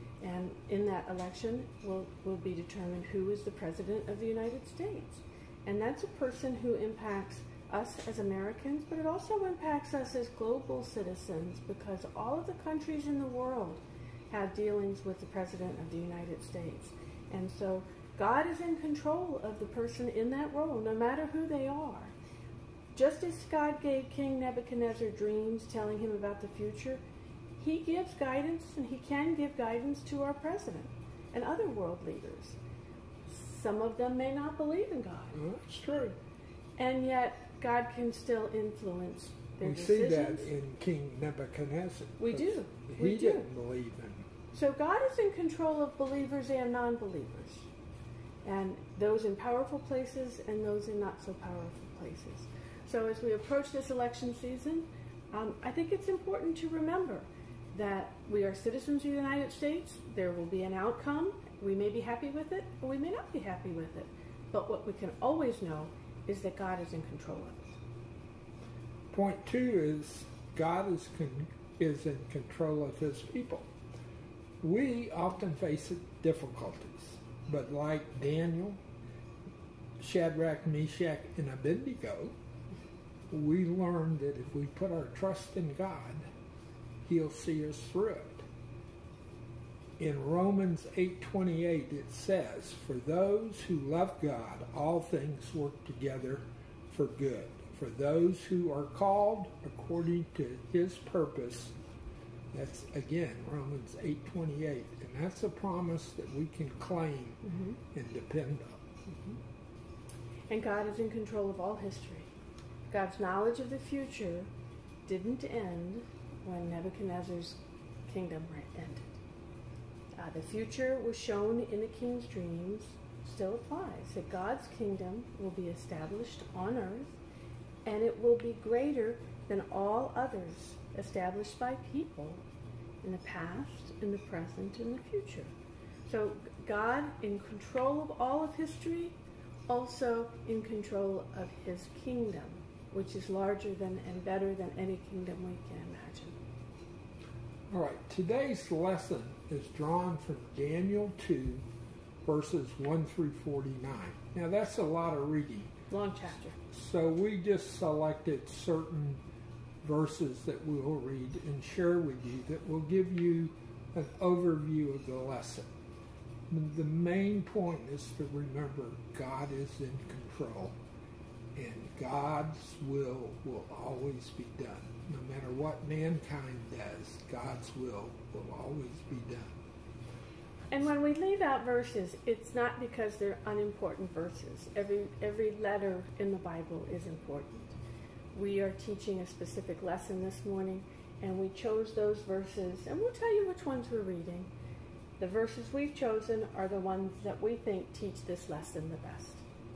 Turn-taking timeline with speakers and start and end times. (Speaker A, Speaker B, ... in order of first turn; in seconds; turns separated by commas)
Speaker A: 0.2-22.1, Speaker A: 22.9-27.0, Speaker A: 27.6-32.6, Speaker A: 33.2-35.4, Speaker B: 35.3-36.1, Speaker A: 36.8-40.5, Speaker B: 39.6-44.3, Speaker A: 42.2-43.5, Speaker A: 44.5-47.7, Speaker A: 48.4-67.8, Speaker B: 69.1-73.7, Speaker B: 74.6-78.8, Speaker B: 80.0-82.3, Speaker B: 83.3-86.2, Speaker B: 87.0-88.4, Speaker B: 90.0-101.7, Speaker B: 102.5-109.0, Speaker A: 107.5-107.8, Speaker A: 110.5-112.3, Speaker A: 112.9-114.5, Speaker A: 115.0-119.1, Speaker A: 120.2-127.2, Speaker A: 127.8-132.4, Speaker A: 133.0-135.5, Speaker A: 136.1-139.2, Speaker A: 139.7-146.4, Speaker B: 147.7-151.6, Speaker B: 152.2-155.7, Speaker A: 155.9-156.6, Speaker B: 156.7-159.2, Speaker B: 159.8-165.7, Speaker B: 166.5-170.7, Speaker B: 171.6-179.5, Speaker A: 180.7-187.7, Speaker A: 188.3-194.5, Speaker A: 195.2-199.4